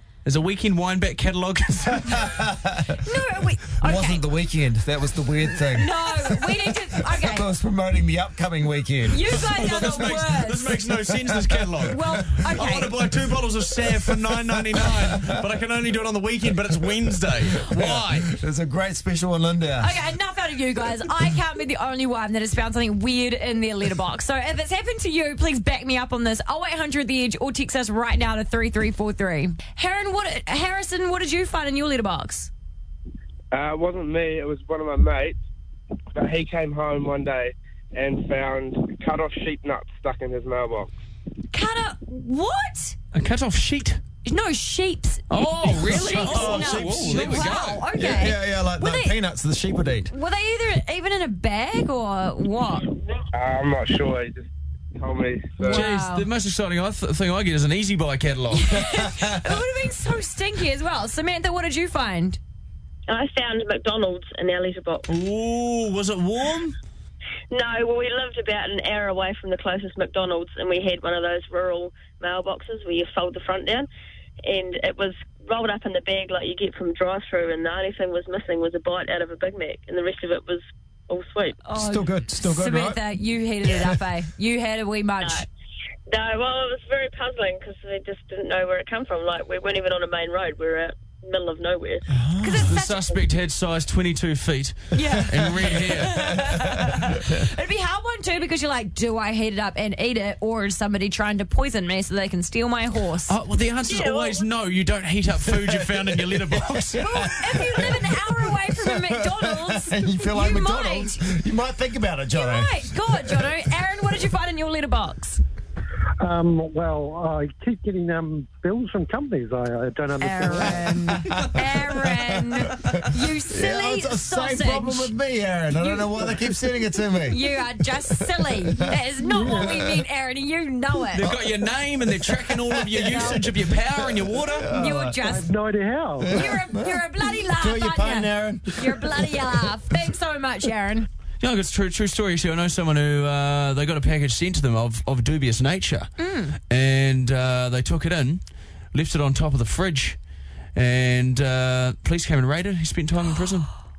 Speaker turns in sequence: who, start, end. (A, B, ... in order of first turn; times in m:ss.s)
0:00.2-0:02.3 A
0:02.0-0:03.0 B
0:03.0-0:04.2 C
0:03.8-0:10.1 B
0:05.6-0:07.5 C
0:09.1-0:10.8 C
0:09.4-0:18.3 A
0:10.9-0:12.6 B
0:11.9-0:12.9 C
0:13.8-0:15.4 B
0:17.1-0:19.9 B
0:19.8-0:32.5 C
0:33.5-0:35.4 D
0:36.2-0:40.9 D
0:41.5-0:43.0 C
0:43.1-0:44.0 A
0:44.2-0:49.2 C
0:45.3-0:47.8 A
0:45.7-0:50.1 B
0:50.1-0:52.9 C
0:53.3-0:55.8 D
0:55.6-0:56.3 C
0:55.7-0:58.8 A
0:58.5-1:02.4 C
1:03.1-1:05.1 E
1:05.1-1:06.8 A
1:07.5-1:13.9 E
1:14.4-1:21.6 E
1:21.6-1:25.4 C
1:21.7-1:23.0 B
1:23.7-1:23.9 B
1:25.2-1:25.4 E
1:26.1-1:32.0 E
1:32.1-1:32.8 B
1:32.4-1:33.2 C
1:32.6-1:36.4 A
1:34.9-1:43.3 C
1:35.6-1:37.1 B
1:43.3-1:47.0 A
1:43.8-1:44.4 E
1:45.4-1:53.5 B
1:47.0-1:51.2 C
1:52.3-1:55.4 C
1:56.2-2:01.3 F
2:00.2-2:05.1 C
2:00.5-2:07.5 B
2:05.8-2:06.4 C
2:07.3-2:11.3 C
2:08.1-2:10.0 B
2:09.3-2:09.8 F
2:11.1-2:14.7 A
2:11.2-2:15.3 B
2:13.1-2:13.4 C
2:14.7-2:15.5 C
2:15.2-2:16.5 F
2:16.2-2:19.7 B
2:16.2-2:21.1 C
2:21.4-2:26.1 A
2:26.2-2:26.6 C
2:26.7-2:28.4 A
2:28.9-2:30.2 A
2:30.7-2:33.7 A